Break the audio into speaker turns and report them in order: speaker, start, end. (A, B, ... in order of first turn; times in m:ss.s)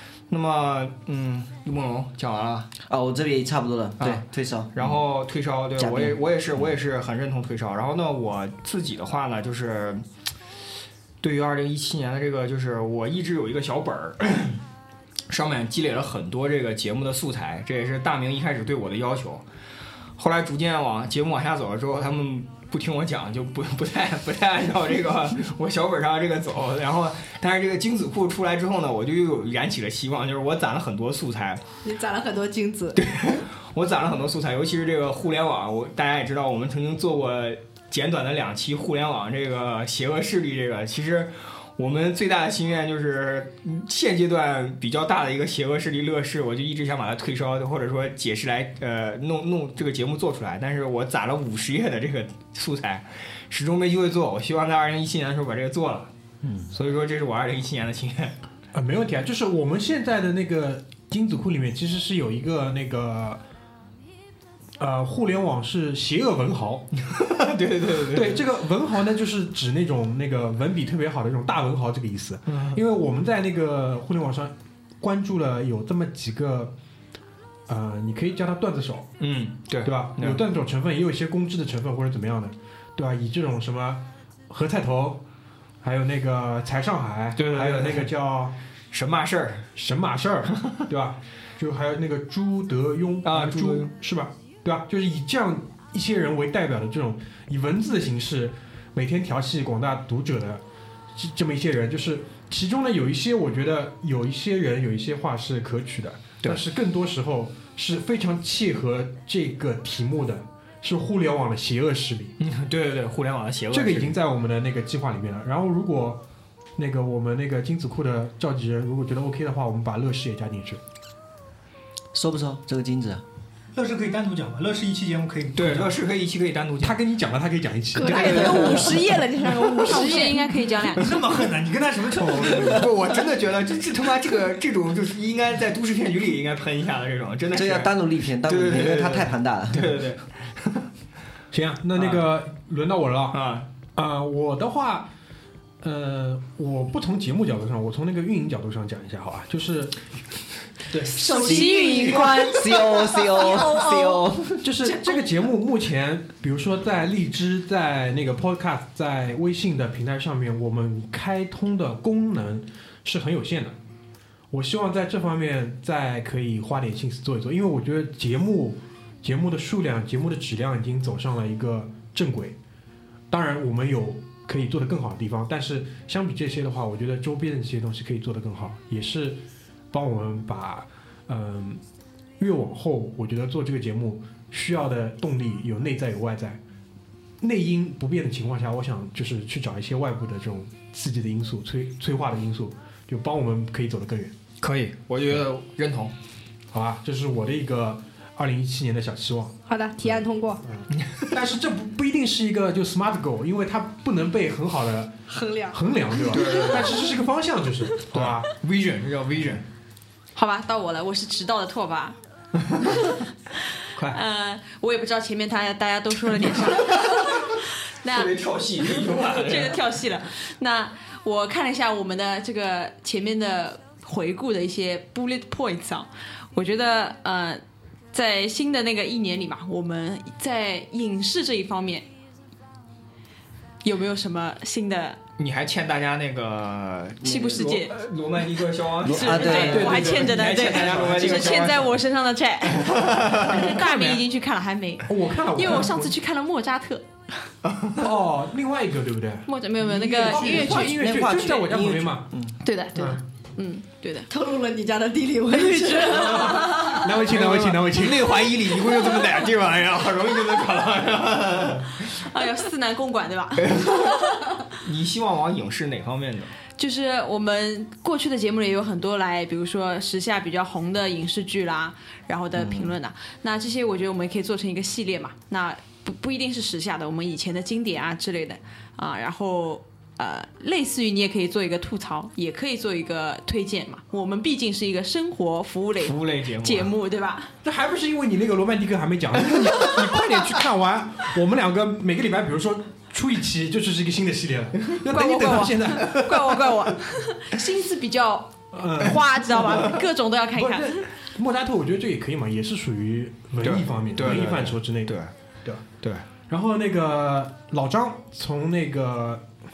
0:00.3-0:02.7 A
0:02.9-0:04.7 B
0:04.0-0:10.0 A
0:05.8-0:06.2 B
0:11.2-0:14.6 A
0:15.3-0:19.4 A
0:20.2-0:31.6 A
0:31.8-0:33.0 C
0:33.0-0:56.1 A
0:56.7-0:58.3 A
0:58.7-1:03.4 D
1:04.8-1:06.9 D
1:07.1-1:08.4 A
1:08.1-1:16.7 D
1:12.5-1:12.8 A
1:17.7-1:19.1 D
1:19.2-1:20.4 A
1:19.8-1:25.2 D
1:25.8-1:28.6 D
1:27.4-1:28.1 A
1:28.9-1:29.7 A
1:29.8-1:40.6 D
1:33.2-1:33.9 A
1:41.2-1:52.3 D
1:52.4-1:54.2 A
1:53.7-1:56.2 D
1:56.8-2:00.8 D
2:02.1-2:03.2 B
2:03.8-2:05.9 E
2:05.6-2:07.0 A
2:06.8-2:08.7 D
2:08.0-2:10.6 C
2:08.0-2:09.0 A
2:09.8-2:11.2 F
2:11.0-2:12.9 E
2:12.4-2:20.9 A
2:17.5-2:20.0 B
2:21.5-2:23.4 D
2:22.0-2:22.3 A
2:23.3-2:23.7 A
2:24.0-2:25.1 D
2:25.8-2:30.0 D
2:30.9-2:32.4 A
2:31.2-2:33.9 F
2:31.2-2:32.3 C
2:31.4-2:34.7 B
2:33.5-2:34.1 C
2:34.6-2:43.8 D
2:34.9-2:35.3 F
2:44.5-2:52.6 D
2:53.3-3:01.8 D
3:02.4-3:06.6 D
3:07.4-3:14.3 D
3:14.6-3:16.1 A
3:16.7-3:25.1 D
3:19.7-3:20.6 C
3:21.0-3:21.2 A
3:25.3-3:25.8 C
3:25.7-3:28.5 D
3:26.3-3:27.0 A
3:28.1-3:29.7 A
3:30.4-3:32.2 F
3:32.6-3:32.9 A
3:34.0-3:34.2 A
3:34.1-3:38.4 F
3:36.6-3:37.3 A
3:38.1-3:39.9 A
3:39.3-3:52.1 F
3:53.8-3:55.2 F
3:55.4-4:02.0 A
3:57.2-3:57.9 F
3:59.0-4:07.1 F
3:59.1-3:59.9 B
3:59.5-4:01.4 D
4:02.7-4:04.2 A
4:05.1-4:06.2 D
4:07.6-4:08.0 A
4:08.0-4:12.3 D
4:09.5-4:11.7 F
4:10.5-4:12.6 B
4:12.6-4:14.3 F
4:13.0-4:13.2 D
4:14.3-4:16.8 C
4:15.5-4:17.0 F
4:16.9-4:18.4 D
4:17.3-4:22.1 A
4:22.2-4:24.4 F
4:23.6-4:24.2 A
4:24.8-4:26.5 A
4:26.8-4:47.5 F
4:46.0-4:47.0 A
4:47.6-4:57.0 D
4:55.0-5:01.1 F
4:58.7-5:00.0 D
5:00.5-5:05.8 D
5:03.6-5:05.3 A
5:06.5-5:09.5 D